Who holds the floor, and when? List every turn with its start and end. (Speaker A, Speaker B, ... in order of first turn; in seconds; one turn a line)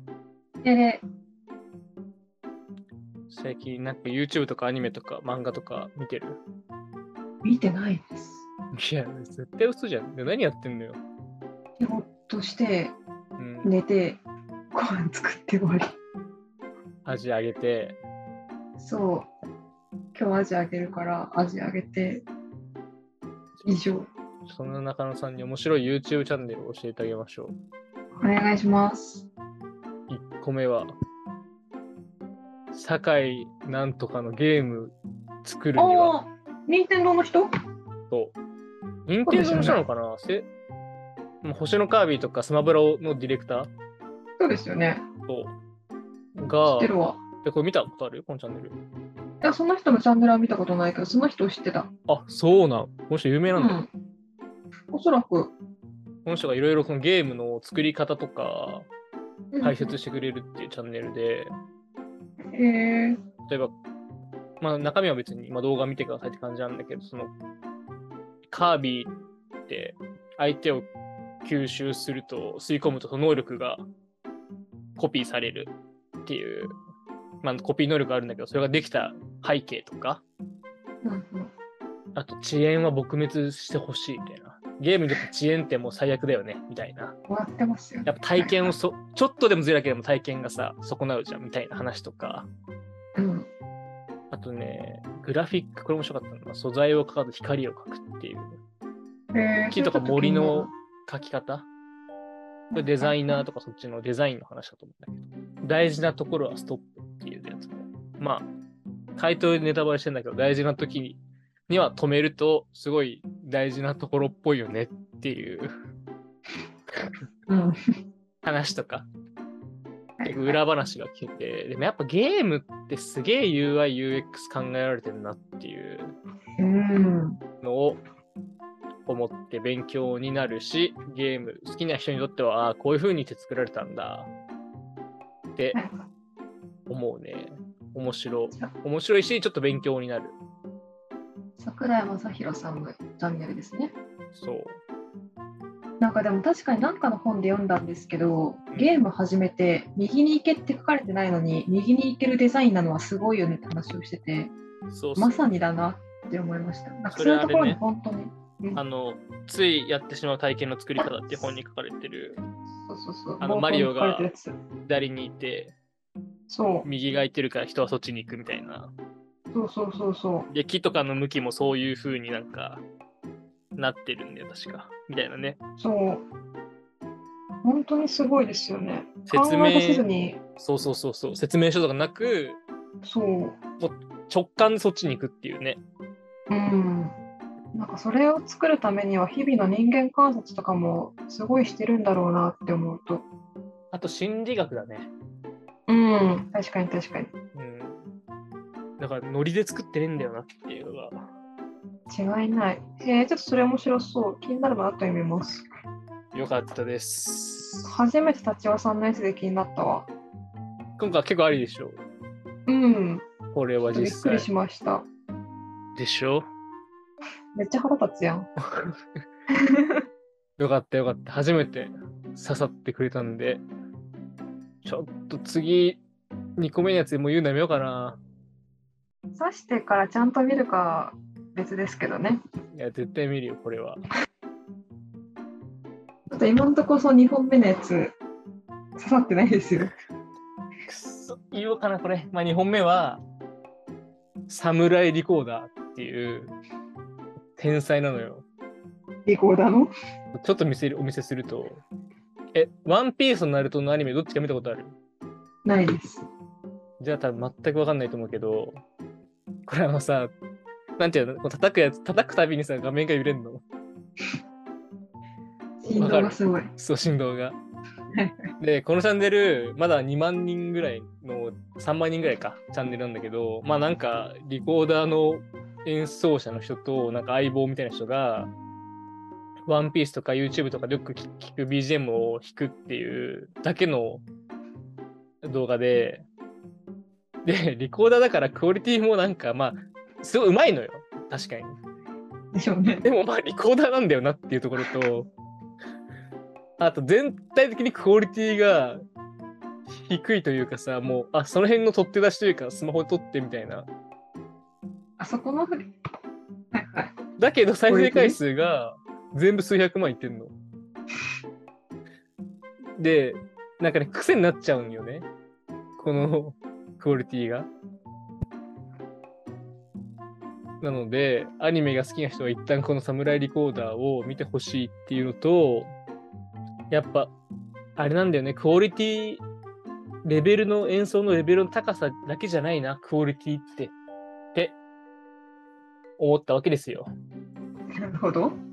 Speaker A: 0.6-1.0
Speaker B: 3.3-6.4
Speaker A: 7.4-8.4
Speaker B: 8.7-11.0
Speaker A: 11.8-12.9
Speaker B: 13.4-13.7
Speaker A: 13.6-14.2
Speaker A: 14.7-15.9
Speaker B: 17.1-18.0
Speaker A: 18.8-19.3
Speaker A: 20.1-22.2
Speaker A: 23.6-24.1
Speaker B: 24.4-27.6
Speaker A: 28.2-29.3
Speaker B: 30.1-30.9
Speaker B: 32.7-36.1
Speaker A: 35.8-37.5
Speaker B: 38.1-38.3
Speaker B: 39.1-40.5
Speaker A: 39.2-39.8
Speaker B: 41.4-43.7
Speaker A: 44.4-45.0
Speaker B: 45.3-45.5
Speaker B: 46.4-46.9
Speaker A: 46.7-47.2
Speaker B: 47.4-48.8
Speaker A: 49.4-51.9
Speaker B: 52.1-53.8
Speaker A: 53.5-53.9
Speaker A: 54.9-55.5
Speaker B: 56.2-58.9
Speaker A: 59.5-60.0
Speaker B: 59.6-61.5
Speaker A: 62.5-63.2
Speaker B: 63.5-63.7
Speaker B: 64.6-67.3
Speaker B: 68.5-69.1
Speaker B: 69.7-70.9
Speaker B: 71.4-73.9
Speaker B: 75.0-75.7
Speaker B: 76.2-76.7
Speaker B: 77.4-80.2
Speaker A: 81.0-81.5
Speaker B: 82.1-87.1
Speaker A: 87.3-88.7
Speaker B: 88.0-92.5
Speaker A: 93.2-93.5
Speaker B: 94.3-98.6
Speaker A: 99.3-100.7
Speaker B: 99.7-101.7
Speaker A: 102.7-103.4
Speaker B: 102.7-108.5
Speaker B: 109.2-115.7
Speaker A: 117.5-117.7
Speaker B: 118.4-119.1
Speaker A: 120.2-120.6
Speaker B: 120.2-126.1
Speaker A: 126.6-127.4
Speaker B: 127.6-128.0
Speaker B: 129.1-134.3
Speaker A: 135.7-136.0
Speaker B: 136.9-140.4
Speaker A: 141.6-143.9
Speaker B: 144.3-144.8
Speaker A: 146.0-154.5
Speaker B: 148.7-149.0
Speaker B: 154.9-155.4
Speaker A: 155.2-158.8
Speaker B: 157.1-157.8
Speaker B: 158.8-162.4
Speaker A: 162.8-164.5
Speaker B: 163.4-164.3
Speaker B: 164.8-165.7
Speaker A: 166.5-166.9
Speaker B: 166.8-168.9
Speaker A: 169.5-170.5
Speaker B: 170.5-172.8
Speaker B: 173.8-175.6
Speaker A: 175.8-176.2
Speaker A: 177.6-180.4
Speaker B: 179.3-182.6
Speaker A: 183.0-183.6
Speaker B: 183.8-185.8
Speaker A: 186.5-187.1
Speaker A: 187.7-193.3
Speaker B: 193.9-195.1
Speaker A: 195.9-197.3
Speaker B: 197.5-198.0
Speaker B: 199.0-201.3
Speaker A: 202.1-205.7
Speaker B: 206.3-208.0
Speaker A: 207.8-210.1
Speaker B: 211.0-212.0
Speaker A: 212.7-213.2
Speaker B: 213.5-214.5
Speaker A: 213.9-215.1
Speaker B: 215.9-216.4
Speaker A: 217.5-218.5
Speaker B: 218.7-219.0
Speaker A: 219.5-220.0
Speaker B: 220.6-223.6
Speaker B: 224.8-226.0
Speaker B: 226.6-228.2
Speaker A: 229.3-232.4
Speaker B: 232.7-234.0
Speaker A: 236.3-238.1
Speaker A: 238.9-239.9
Speaker B: 240.8-243.2
Speaker B: 244.5-246.5
Speaker B: 247.6-248.4
Speaker A: 249.2-249.9
Speaker B: 250.3-251.8
Speaker B: 252.5-254.9
Speaker A: 255.6-256.2
Speaker B: 257.0-258.8
Speaker B: 259.7-260.3
Speaker B: 261.0-263.6
Speaker A: 265.8-266.7
Speaker B: 265.9-267.6
Speaker A: 268.1-268.5
Speaker B: 268.6-278.5
Speaker B: 279.7-284.2
Speaker B: 285.4-286.2
Speaker B: 287.4-291.8
Speaker A: 292.5-293.0
Speaker B: 293.0-295.3
Speaker B: 296.8-299.0
Speaker B: 299.9-303.9
Speaker A: 305.2-305.9
Speaker A: 306.7-307.1
Speaker B: 307.4-310.5
Speaker A: 307.9-308.4
Speaker B: 313.0-315.3
Speaker B: 316.0-317.7
Speaker B: 320.8-325.9
Speaker B: 326.9-327.3
Speaker B: 327.9-329.4
Speaker B: 330.2-333.9
Speaker B: 336.2-337.1
Speaker A: 338.0-338.5